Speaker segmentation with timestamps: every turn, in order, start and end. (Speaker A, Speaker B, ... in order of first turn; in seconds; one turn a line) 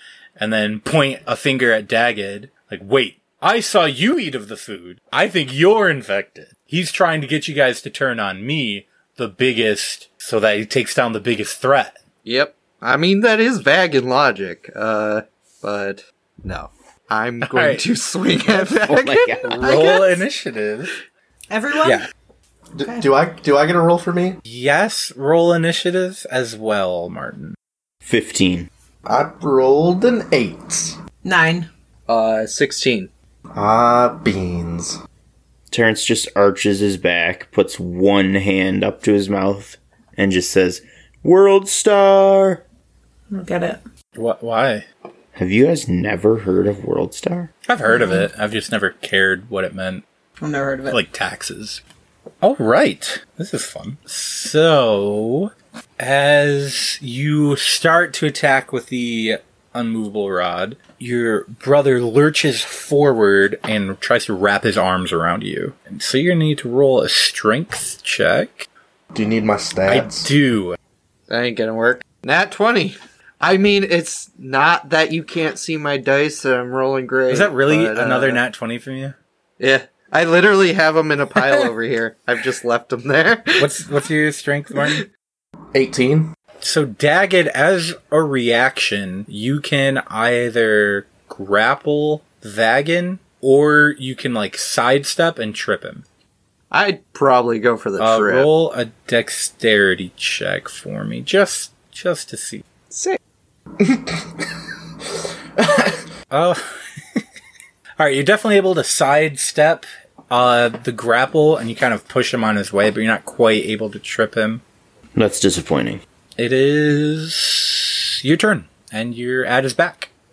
Speaker A: 0.4-12.0
Speaker B: 12.2-20.2
Speaker A: 17.4-17.9
Speaker C: 18.9-19.5
Speaker A: 19.4-20.9
Speaker D: 21.5-22.0
Speaker E: 22.8-24.4
Speaker A: 24.5-27.6
Speaker C: 28.0-28.7
Speaker E: 29.1-31.0
Speaker D: 31.2-31.7
Speaker B: 32.1-33.1
Speaker E: 33.5-35.0
Speaker C: 35.7-42.6
Speaker D: 43.3-43.8
Speaker A: 44.1-44.9
Speaker C: 45.4-47.5
Speaker A: 47.7-50.0
Speaker D: 47.9-48.3
Speaker D: 50.4-51.0
Speaker A: 50.9-51.8
Speaker A: 52.4-68.7
Speaker E: 69.1-70.3
Speaker A: 69.9-70.8
Speaker B: 71.3-78.4
Speaker A: 77.3-79.2
Speaker B: 79.6-83.7
Speaker A: 83.6-85.0
Speaker E: 85.7-86.3
Speaker A: 86.6-96.0
Speaker B: 96.7-98.5
Speaker A: 98.0-102.7
Speaker B: 102.9-103.2
Speaker E: 103.8-104.5
Speaker E: 105.6-106.0
Speaker A: 106.3-107.2
Speaker A: 108.0-114.6
Speaker C: 115.2-116.0
Speaker A: 116.4-120.1